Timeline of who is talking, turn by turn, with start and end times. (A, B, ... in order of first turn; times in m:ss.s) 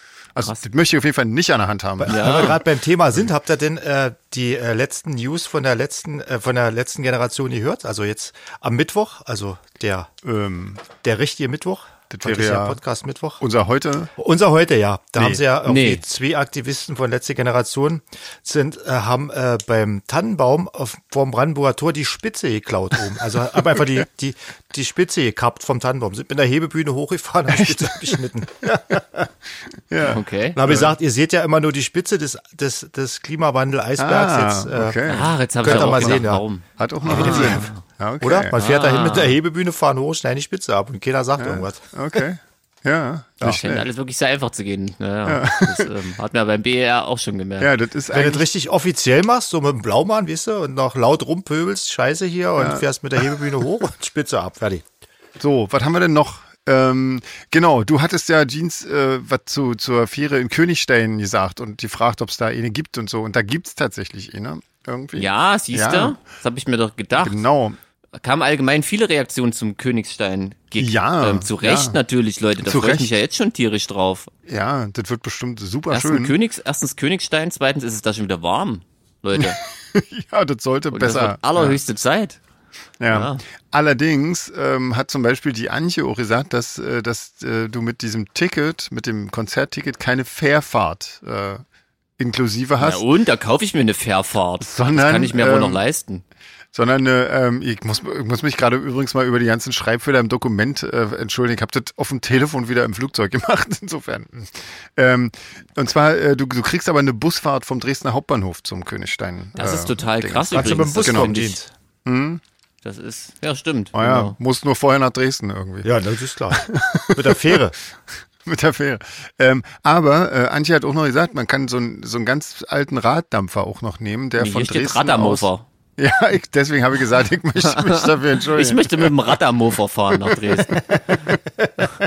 0:00.3-0:02.6 A
0:02.0-0:10.1 B
0:02.1-0:02.6 C
0:10.2-0:10.8 A
0:11.0-0:13.4 B
0:12.1-0:12.8 A
0:13.4-0:14.1 A
0:14.2-0:29.3 B
0:15.6-0:16.0 C
0:27.5-0:28.2 A
0:29.9-0:31.0 A
0:30.0-0:30.6 C
0:30.6-0:35.0 B
0:34.0-0:38.6 A
0:35.0-0:37.8 C
0:35.6-0:36.4 B
0:37.0-0:41.9 B
0:38.5-0:39.4 C
0:41.4-0:43.9 A
0:43.4-0:47.7 C
0:45.2-0:45.9 A
0:47.6-0:48.4 A
0:48.1-0:54.8 B
0:52.6-0:53.5 A
0:55.4-1:06.2 A
1:05.1-1:07.4 C
1:07.2-1:07.8 A
1:08.2-1:14.3 C
1:10.8-1:12.0 A
1:12.6-1:13.1 A
1:14.5-1:16.4 A
1:15.9-1:19.6 C
1:19.4-1:21.8 A
1:20.9-1:22.4 C
1:23.0-1:31.6 A
1:23.1-1:23.4 C
1:32.2-1:33.0 A
1:32.8-1:36.2 C
1:34.6-1:35.8 A
1:36.7-1:51.4 A
1:49.6-1:51.6 C
1:50.5-1:51.7 B
1:52.0-1:52.4 A
1:52.8-1:54.4 C
1:53.9-1:55.9 A
1:55.8-1:57.8 B
1:56.5-1:57.6 A
1:58.4-2:09.4 A
2:04.4-2:05.6 C
2:07.6-2:10.8 C
2:10.1-2:11.4 A